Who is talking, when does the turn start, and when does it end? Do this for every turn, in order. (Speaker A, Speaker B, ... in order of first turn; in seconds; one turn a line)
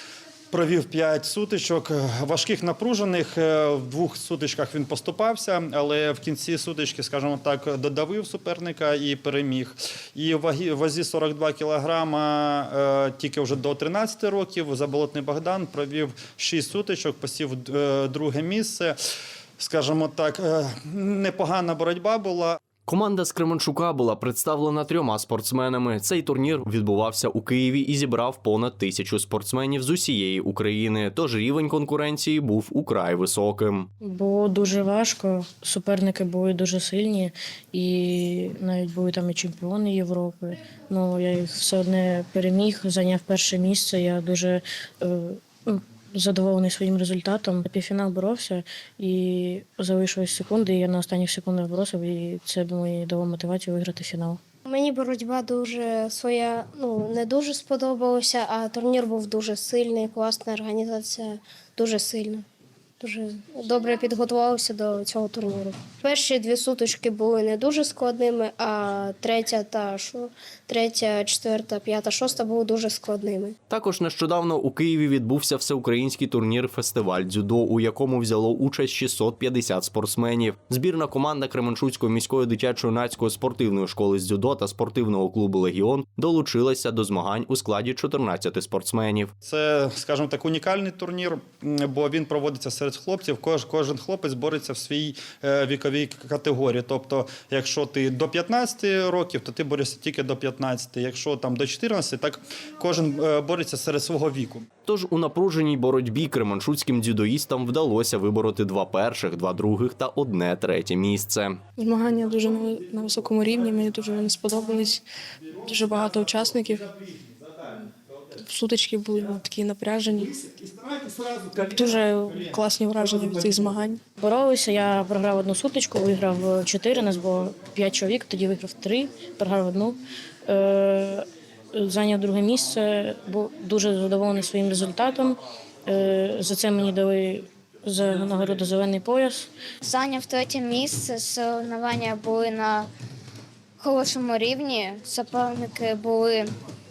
Speaker A: 0.5-19.0
Speaker A: 19.6-22.6
Speaker B: 22.9-33.9
Speaker C: 34.0-54.4
Speaker D: 54.7-62.4
Speaker D: 63.0-73.5
Speaker B: 73.7-89.3
Speaker A: 89.4-104.7
Speaker B: 104.9-111.6
Speaker E: 111.8-115.0
Speaker E: 115.6-117.0
Speaker E: 118.3-124.0
Speaker C: 124.2-139.5
Speaker F: 139.8-142.9
Speaker F: 143.8-146.5